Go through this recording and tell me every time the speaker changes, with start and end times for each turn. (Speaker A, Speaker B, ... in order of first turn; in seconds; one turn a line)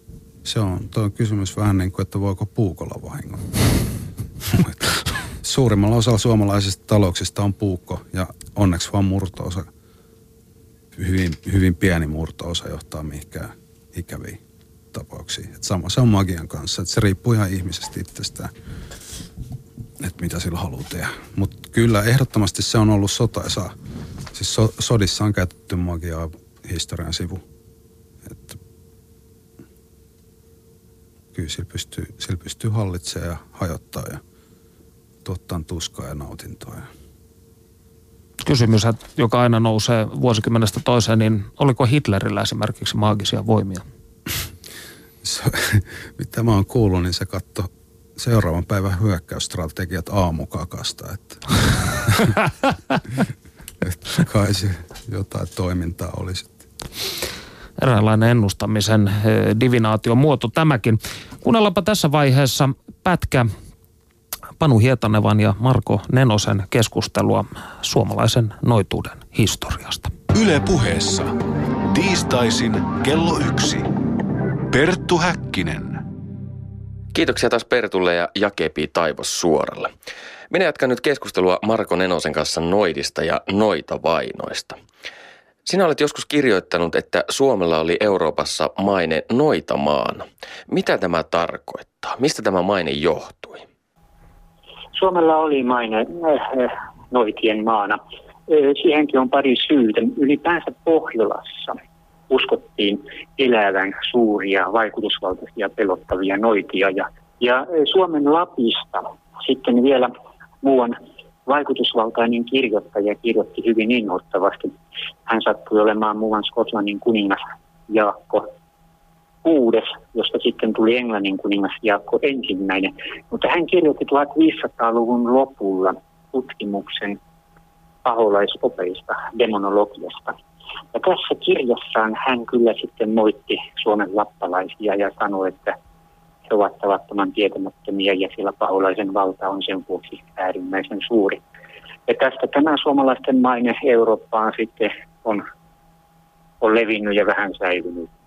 Speaker A: 0.4-3.8
Speaker A: 4.4-9.7
Speaker A: 10.9-14.4
Speaker A: 14.9-18.5
Speaker A: 20.0-23.7
Speaker A: 24.3-27.4
Speaker A: 28.2-28.6
Speaker A: 31.3-34.2
Speaker A: 35.2-36.9
Speaker B: 38.4-43.8
Speaker A: 45.2-52.3
Speaker A: 53.8-56.6
Speaker B: 57.8-63.5
Speaker B: 64.6-70.1
Speaker C: 70.3-71.3
Speaker C: 71.9-73.9
Speaker C: 74.7-76.0
Speaker D: 77.1-79.9
Speaker D: 80.5-84.8
Speaker D: 85.7-93.6
Speaker E: 94.9-101.8
Speaker E: 102.3-114.7
Speaker E: 115.3-118.5
Speaker E: 119.4-127.2
Speaker E: 128.0-130.3
Speaker E: 130.9-135.8
Speaker E: 136.5-141.4
Speaker E: 142.1-145.4
Speaker E: 146.6-148.1